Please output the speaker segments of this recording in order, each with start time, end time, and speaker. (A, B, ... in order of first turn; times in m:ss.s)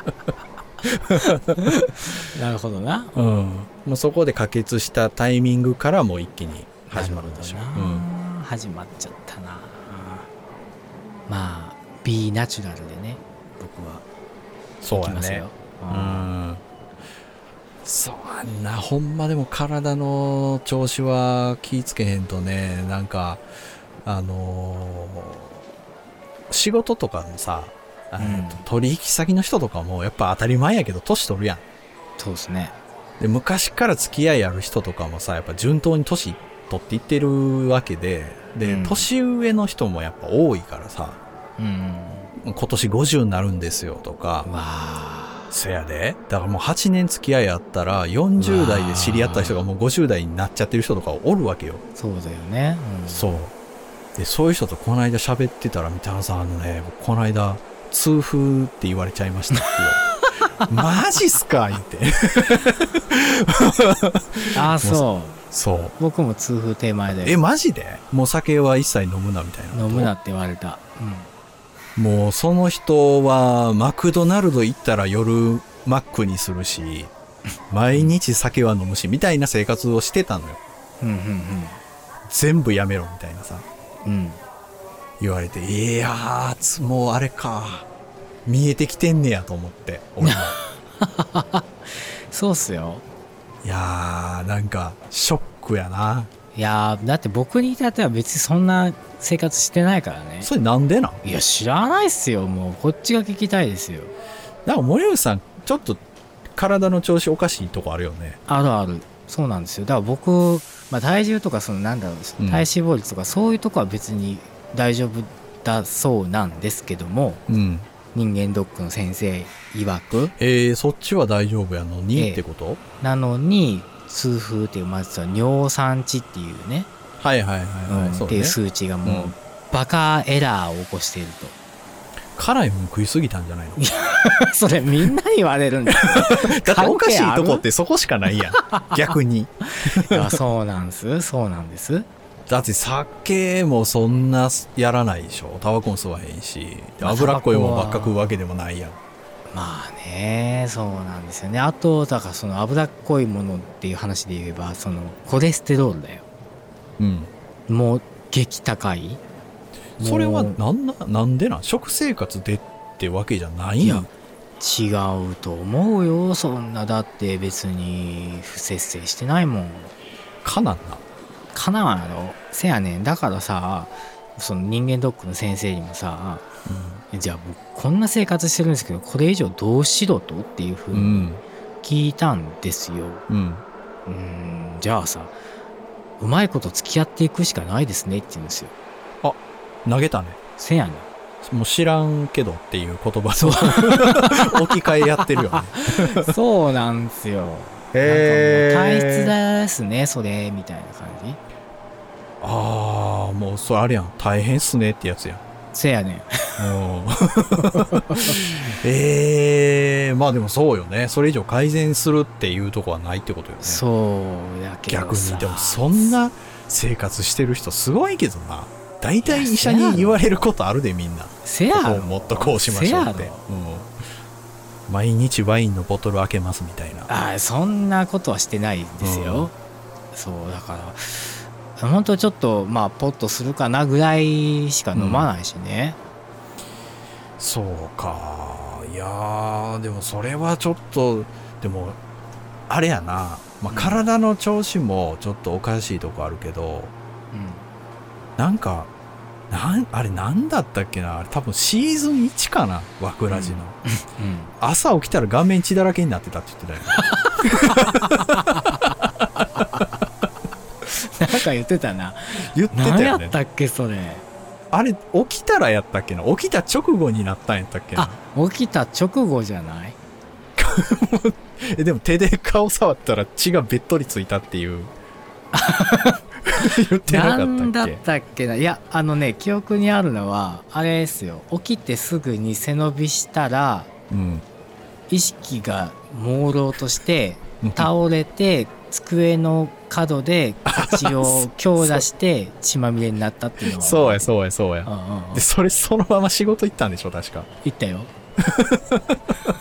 0:00.9-0:01.5 A
0:01.2-0:03.1 B
0:03.1-0:08.1 A
0:06.9-0:10.3 B
0:11.3-0:14.0 B
0:14.8-0:16.6 A
0:14.9-0:16.3 B
0:17.8-0:23.4 A
0:24.0-0:25.6 A
0:26.5-0:31.6 A
0:28.2-0:28.6 B
0:32.2-0:32.8 B
0:33.2-0:41.2 A
0:38.6-0:39.1 B
0:41.6-0:42.3 B
0:42.4-0:44.5 A
0:44.4-0:45.5 B
0:45.5-0:51.8 A
0:48.4-0:49.6 B
0:51.9-0:53.3 B
0:53.1-0:53.5 A
0:54.2-1:00.0 A
0:59.5-1:00.7 B
1:00.7-1:05.9 A
1:04.5-1:05.4 B
1:06.0-1:07.4 B
1:07.2-1:10.1 A
1:09.7-1:11.3 B
1:12.0-1:17.1 A
1:17.7-1:20.6 A
1:21.0-1:21.8 B
1:22.3-1:23.6 A
1:24.0-1:24.4 B
1:25.2-1:27.9 A
1:28.4-1:30.6 A
1:30.2-1:33.0 B
1:33.6-1:36.3 A
1:36.5-1:40.5 B
1:40.4-1:41.2 A
1:41.2-1:44.1 B
1:44.6-1:46.0 A
1:46.5-1:48.4 A
1:48.5-1:57.4 B
1:52.4-1:52.7 A
1:57.5-1:57.9 A
1:58.1-2:00.3 B
2:00.4-2:02.8 A
2:02.1-2:02.4 B
2:03.0-2:06.9 B
2:07.2-2:09.3 A
2:07.9-2:11.5 B
2:12.3-2:13.8 A
2:13.8-2:17.6 B
2:16.1-2:20.4 A
2:18.5-2:19.1 B
2:19.8-2:22.1 B
2:22.5-2:29.0 A
2:27.0-2:28.3 B
2:29.5-2:36.2 B
2:37.0-2:37.3 A
2:37.7-2:39.2 B
2:40.0-2:44.1 A
2:40.0-2:40.6 B
2:43.8-2:44.1 B
2:44.6-2:49.9 B
2:50.4-2:51.0 A
2:51.5-2:56.5 B
2:56.6-2:57.0 A
2:57.1-3:01.3 B
3:00.9-3:01.4 A
3:01.8-3:03.2 B
3:03.3-3:03.6 A
3:04.0-3:05.4 B
3:06.2-3:08.7 B
3:09.2-3:10.4 A
3:10.6-3:11.1 B
3:11.4-3:16.3 A
3:13.4-3:14.5 B
3:15.2-3:21.4 B
3:17.9-3:19.4 A
3:22.4-3:25.4 A
3:25.7-3:26.8 B
3:26.6-3:33.8 A
3:27.7-3:28.4 B
3:33.6-3:36.2 B
3:34.9-3:43.9 A
3:39.2-3:40.2 B
3:41.4-3:43.4 B
3:44.9-3:47.1 A
3:47.1-3:49.5 B
3:49.0-3:49.5 A
3:50.1-3:56.0 B
3:54.9-3:55.3 A
3:57.4-4:02.0 A
4:02.7-4:06.9 A
4:03.7-4:04.0 B
4:07.3-4:07.6 B
4:08.4-4:08.9 A
4:09.5-4:13.8 A
4:13.3-4:14.5 B
4:14.6-4:18.9 A
4:16.9-4:18.8 B
4:19.6-4:19.8 A
4:19.6-4:19.8 B
4:21.0-4:24.2 B
4:22.3-4:23.4 A
4:24.7-4:28.2 A
4:27.9-4:30.0 B
4:30.6-4:34.9 A
4:35.5-4:43.9 B
4:36.5-4:38.0 A
4:44.1-4:44.4 A
4:45.1-4:54.3 B
4:47.6-4:47.9 A
4:50.7-4:52.0 A
4:53.7-4:57.5 A
4:54.8-4:55.5 B
4:57.6-4:58.1 B
4:58.4-4:59.2 A